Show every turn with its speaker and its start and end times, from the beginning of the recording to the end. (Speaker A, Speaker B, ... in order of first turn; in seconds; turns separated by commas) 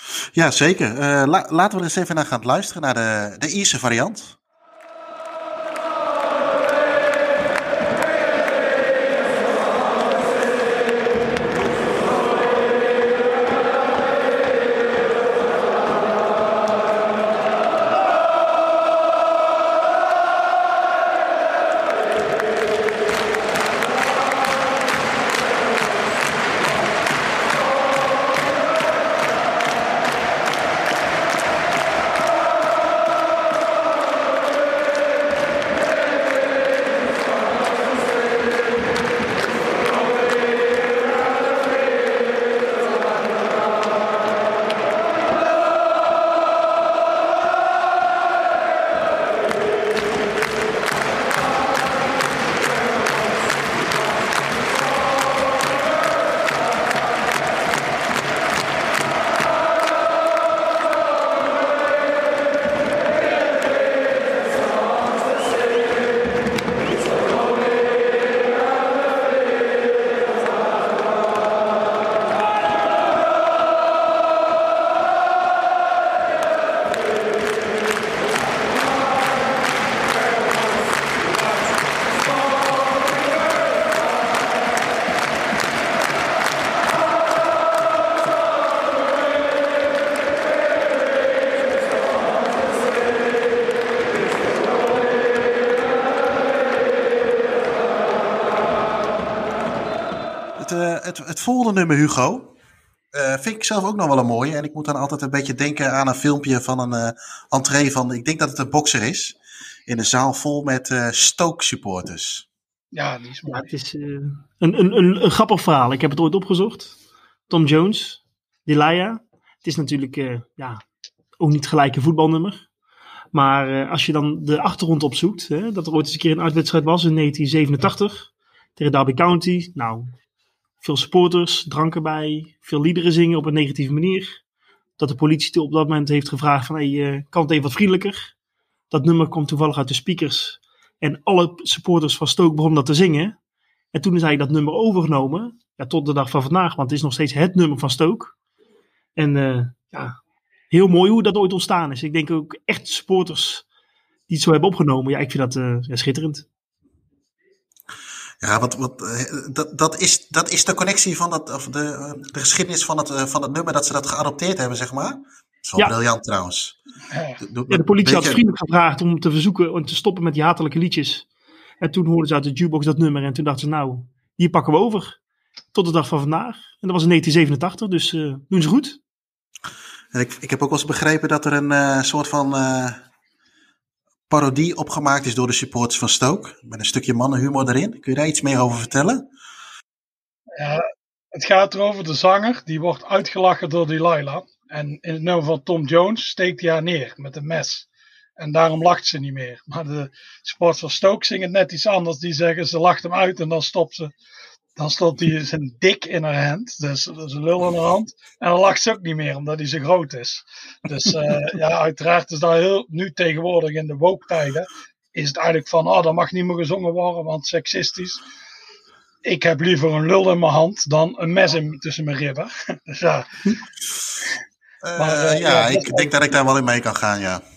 Speaker A: 0.3-4.4, Speaker A: 100.6-102.6, Speaker A: 103.1-109.4, Speaker A: 109.9-112.5, Speaker B: 112.9-113.7, Speaker C: 113.5-117.0, Speaker C: 117.5-120.8, Speaker C: 121.4-122.7, Speaker C: 123.3-130.1, Speaker C: 130.8-134.4, Speaker C: 135.0-138.3, Speaker C: 138.9-143.4, Speaker C: 143.9-148.3, Speaker C: 149.2-150.2, Speaker C: 150.7-153.6, Speaker C: 154.3-156.5, Speaker A: 158.4-166.8, Speaker B: 167.1-167.4, Speaker A: 167.4-168.4, Speaker C: 167.7-171.3, Speaker C: 171.8-175.2, Speaker C: 175.7-179.0, Speaker A: 180.1-183.0, Speaker A: 184.3-189.3, Speaker B: 190.6-204.1, Speaker B: 204.8-218.2, Speaker B: 219.2-223.3, Speaker A: 224.8-227.4, Speaker B: 225.0-226.2